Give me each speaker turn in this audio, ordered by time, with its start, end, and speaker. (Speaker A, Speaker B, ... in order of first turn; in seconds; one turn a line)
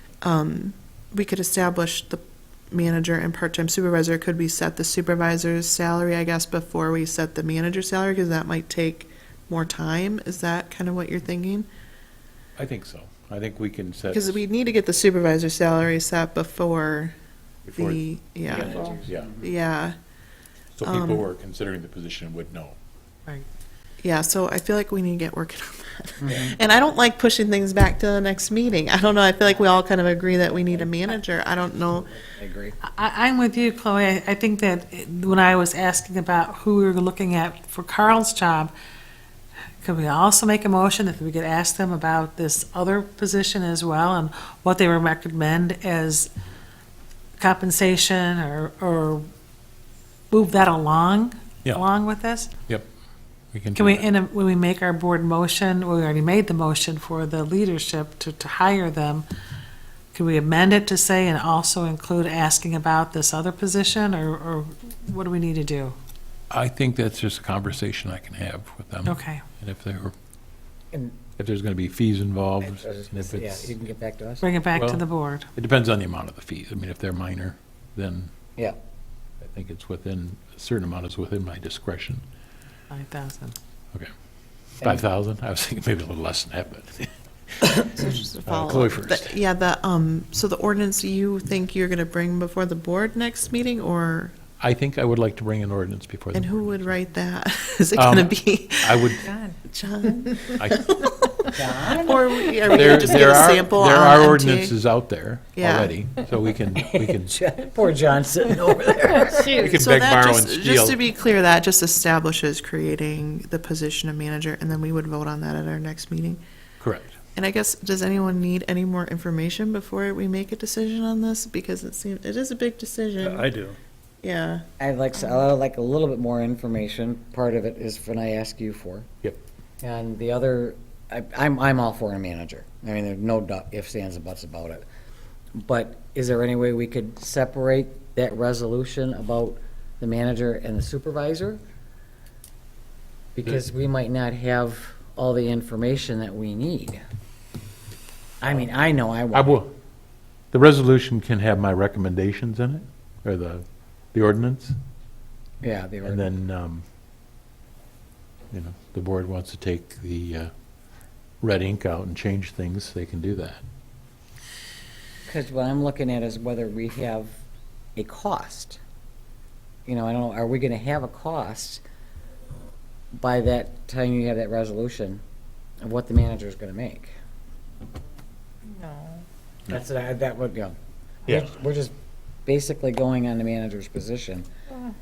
Speaker A: 0.2-11.7
Speaker B: 12.6-14.4
Speaker A: 14.1-17.1
Speaker B: 17.6-19.4
Speaker A: 17.8-19.9
Speaker B: 20.8-22.8
Speaker A: 20.8-21.2
Speaker A: 24.0-32.1
Speaker C: 32.3-32.8
Speaker D: 32.8-38.7
Speaker D: 39.8-46.3
Speaker D: 47.4-49.3
Speaker D: 50.3-52.5
Speaker B: 53.5-54.1
Speaker D: 53.7-59.2
Speaker D: 60.1-66.0
Speaker B: 66.5-70.1
Speaker D: 69.0-69.4
Speaker C: 70.9-71.2
Speaker B: 71.4-73.7
Speaker C: 72.6-74.4
Speaker D: 74.4-75.5
Speaker B: 74.7-78.3
Speaker B: 79.4-82.2
Speaker D: 82.9-83.6
Speaker B: 84.8-87.1
Speaker A: 87.8-94.3
Speaker B: 88.5-89.4
Speaker B: 94.6-96.6
Speaker A: 96.3-104.7
Speaker B: 97.9-99.3
Speaker B: 100.5-101.0
Speaker C: 101.5-103.0
Speaker B: 102.7-107.5
Speaker A: 105.5-106.0
Speaker C: 106.7-109.7
Speaker B: 109.4-111.0
Speaker A: 109.6-116.4
Speaker B: 116.8-117.1
Speaker A: 117.3-123.5
Speaker B: 123.2-123.8
Speaker A: 124.2-124.6
Speaker C: 124.8-129.1
Speaker C: 129.8-134.8
Speaker C: 135.6-141.6
Speaker C: 143.3-147.0
Speaker C: 148.4-149.6
Speaker B: 149.3-149.7
Speaker B: 150.5-154.8
Speaker C: 155.6-156.3
Speaker B: 156.0-156.8
Speaker B: 158.5-160.5
Speaker B: 161.4-163.6
Speaker C: 165.2-167.3
Speaker C: 167.9-168.8
Speaker C: 169.8-171.8
Speaker C: 173.1-175.2
Speaker C: 175.8-177.1
Speaker C: 179.7-180.8
Speaker C: 181.3-181.9
Speaker C: 182.4-184.5